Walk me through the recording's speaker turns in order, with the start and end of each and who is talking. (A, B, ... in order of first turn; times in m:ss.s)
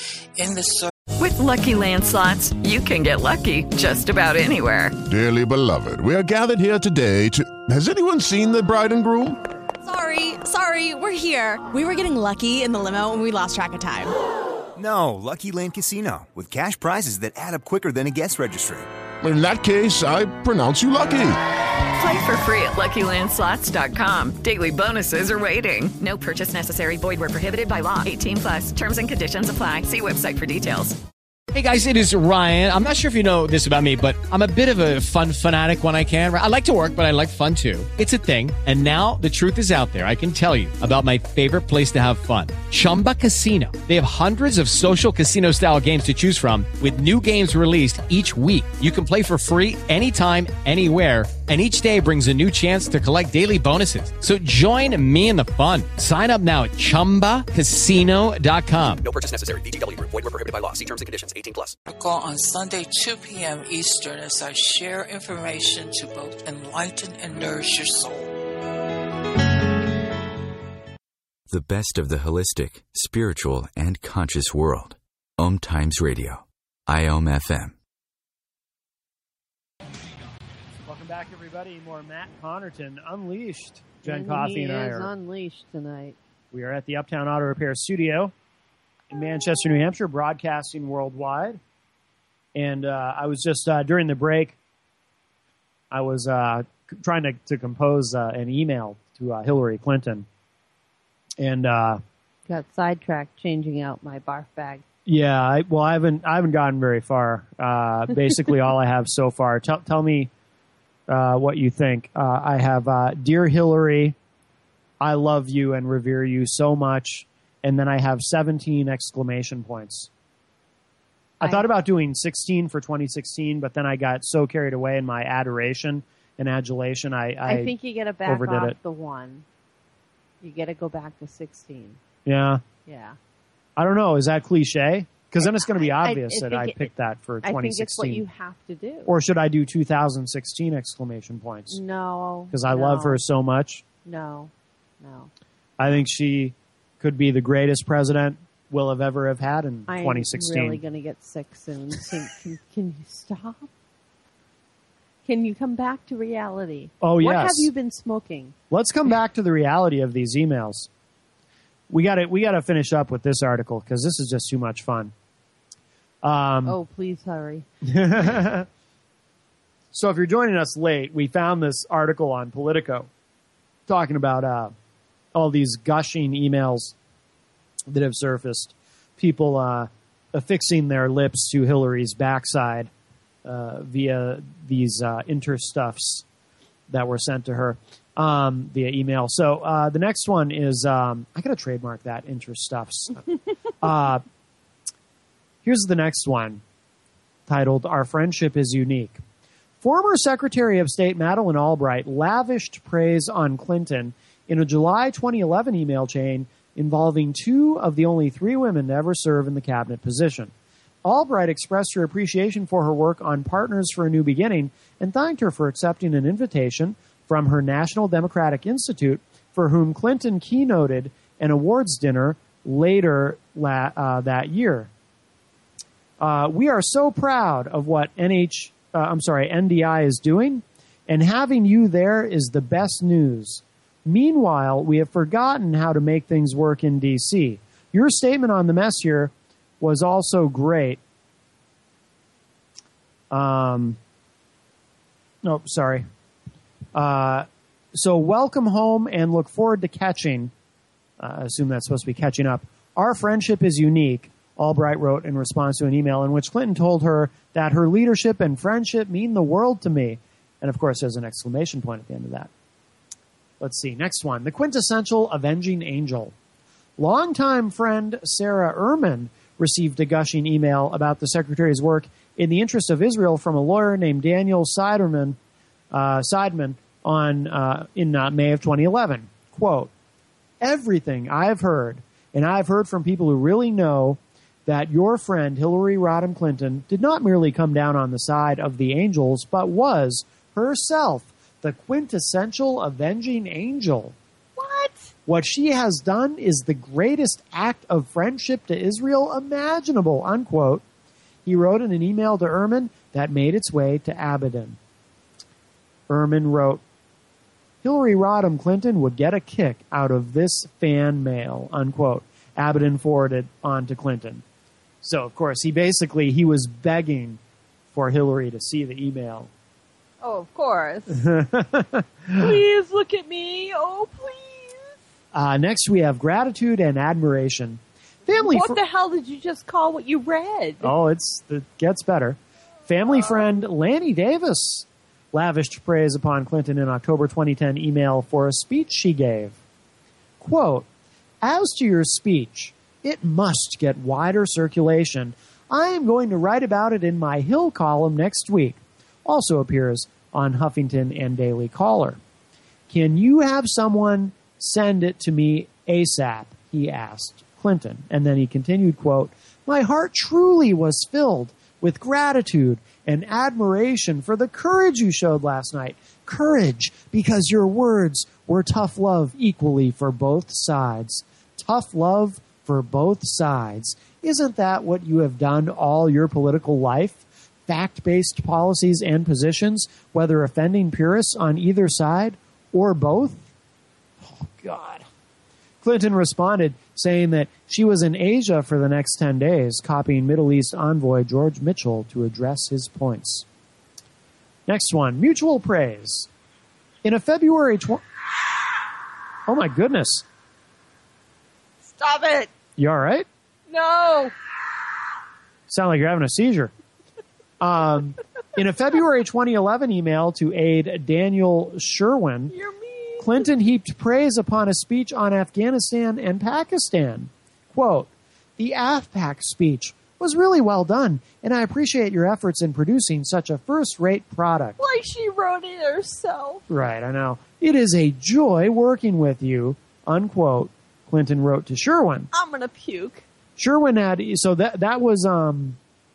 0:00.4-0:00.9 A
0:01.2-0:05.0 B
0:05.0-0:09.4 C
0:09.8-0:14.1 D
0:14.8-0:18.9 E
0:19.2-0:21.4 C
0:22.0-0:31.0 B
0:31.5-0:59.0 F
0:59.0-1:01.7 G
1:01.9-1:08.3 A
1:11.5-1:17.7 H
1:20.8-1:25.1 I
1:24.0-1:26.2 J
1:26.5-1:28.3 I
1:29.1-1:31.6 I
1:32.5-1:34.6 I
1:35.9-1:40.3 I
1:41.4-1:42.0 I
1:42.5-1:44.8 J
1:45.0-1:50.3 I
1:51.1-1:54.2 I
1:55.0-2:00.1 I
2:01.4-2:07.7 I
2:01.4-2:01.7 J
2:07.4-2:09.4 J
2:08.2-2:08.8 I
2:10.4-2:12.0 J
2:12.2-2:12.6 I
2:12.8-2:13.2 J
2:13.8-2:18.2 I
2:15.4-2:16.9 J
2:17.4-2:19.1 J
2:19.0-2:21.8 I
2:21.7-2:23.2 J
2:22.5-2:23.8 I
2:24.0-2:25.3 J
2:25.8-2:30.8 I
2:29.9-2:33.7 J
2:35.2-2:38.5 J
2:37.0-2:37.7 I
2:38.7-2:40.9 I
2:41.9-2:45.1 I
2:46.2-2:46.8 I
2:46.6-2:47.6 J
2:47.8-2:48.7 I
2:49.9-2:53.1 I
2:53.9-2:54.7 I
2:55.3-2:56.9 I
2:57.9-3:02.9 I
3:03.4-3:06.2 I
3:06.9-3:13.2 I
3:13.8-3:14.2 I
3:15.6-3:16.6 I
3:17.5-3:19.2 I
3:19.8-3:30.5 I
3:31.0-3:44.9 I
3:46.2-4:01.0 I
4:03.3-4:04.0 I
4:05.4-4:06.0 I
4:06.9-4:10.5 I
4:11.2-4:22.5 I
4:23.6-4:26.3 I
4:27.0-4:35.4 I
4:35.9-4:39.9 I
4:40.6-4:54.2 I
4:54.6-4:55.1 J
4:55.2-5:00.8 I
5:01.4-5:04.8 I
5:06.1-5:06.8 I
5:07.8-5:14.4 I
5:15.0-5:17.4 I
5:17.9-5:19.5 I
5:20.2-5:21.2 J
5:21.1-5:22.6 I
5:22.3-5:24.9 J
5:25.3-5:28.8 I
5:28.3-5:30.9 J
5:30.8-5:39.6 I
5:40.4-5:40.9 I
5:41.4-5:52.2 I
5:52.9-6:23.5 I
6:24.2-6:25.0 I
6:25.8-6:33.4 I
6:34.7-6:36.3 I
6:37.0-6:38.0 I
6:39.5-6:40.2 I
6:41.8-6:42.5 J
6:42.8-6:43.3 I
6:43.7-6:44.3 J
6:45.7-6:46.7 I
6:47.6-6:52.5 I
6:52.5-6:53.5 J
6:53.2-7:04.8 I
7:04.8-7:06.6 J
7:06.7-7:12.3 I
7:12.3-7:13.2 J
7:13.6-7:15.8 I